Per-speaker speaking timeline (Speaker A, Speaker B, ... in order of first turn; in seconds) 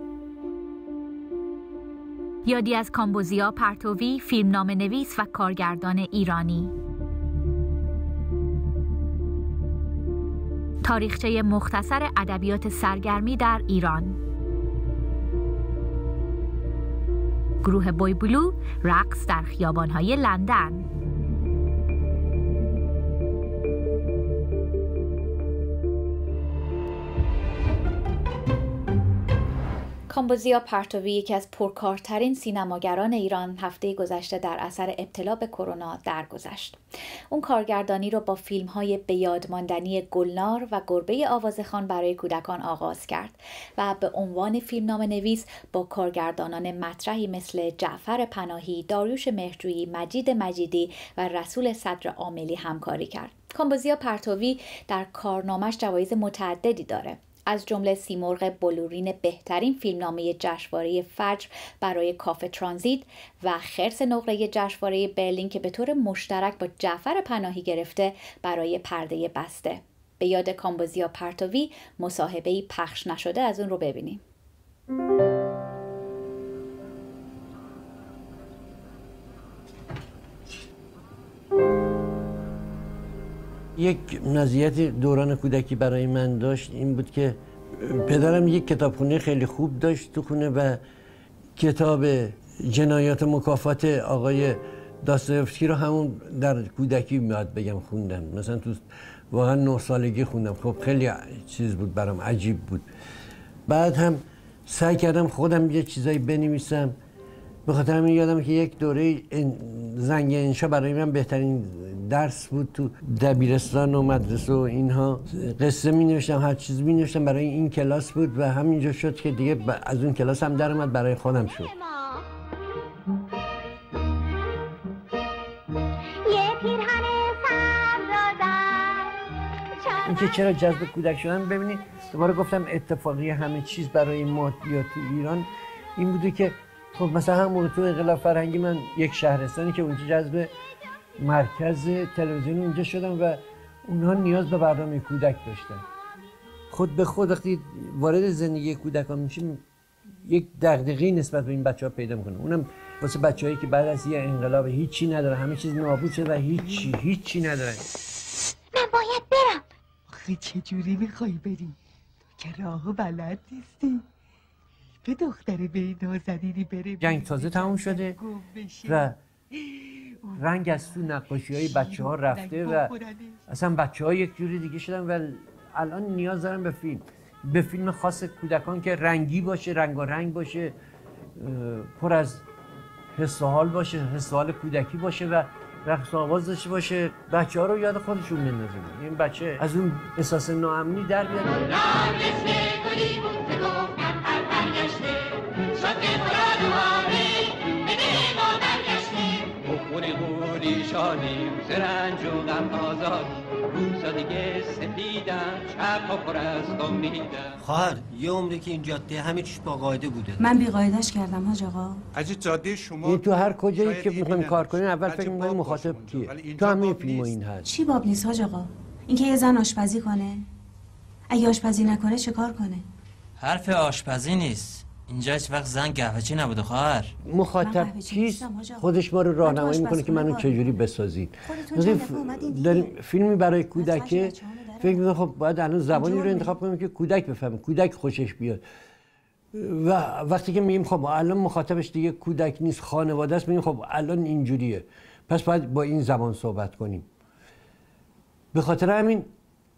Speaker A: 2.5-6.7, 10.8-14.2, 17.6-20.9, 30.1-36.8, 37.3-74.2
Speaker B: 83.8-90.8, 91.6-102.9, 103.7-107.0, 107.7-121.7, 130.0-140.5, 141.2-145.9, 146.7-149.7, 150.2-157.9, 167.0-168.2, 168.8-169.2, 170.4-172.9, 173.5-180.8, 181.4-182.4, 183.2-192.3, 213.0-217.7, 227.2-238.6, 239.5-247.1, 248.5-249.3
Speaker C: 126.2-129.0, 129.8-130.2, 158.8-159.6
Speaker D: 160.1-161.8, 162.4-164.0, 165.1-168.9, 169.7-170.4, 171.8-173.4
Speaker E: 195.8-196.3, 199.0-207.6
Speaker F: 207.6-210.4
Speaker G: 210.4-212.0, 217.7-220.4, 221.3-222.8, 227.6-228.9, 229.4-230.7, 231.4-233.0, 233.8-235.0, 235.9-236.6
Speaker H: 212.1-217.4
Speaker I: 223.4-227.1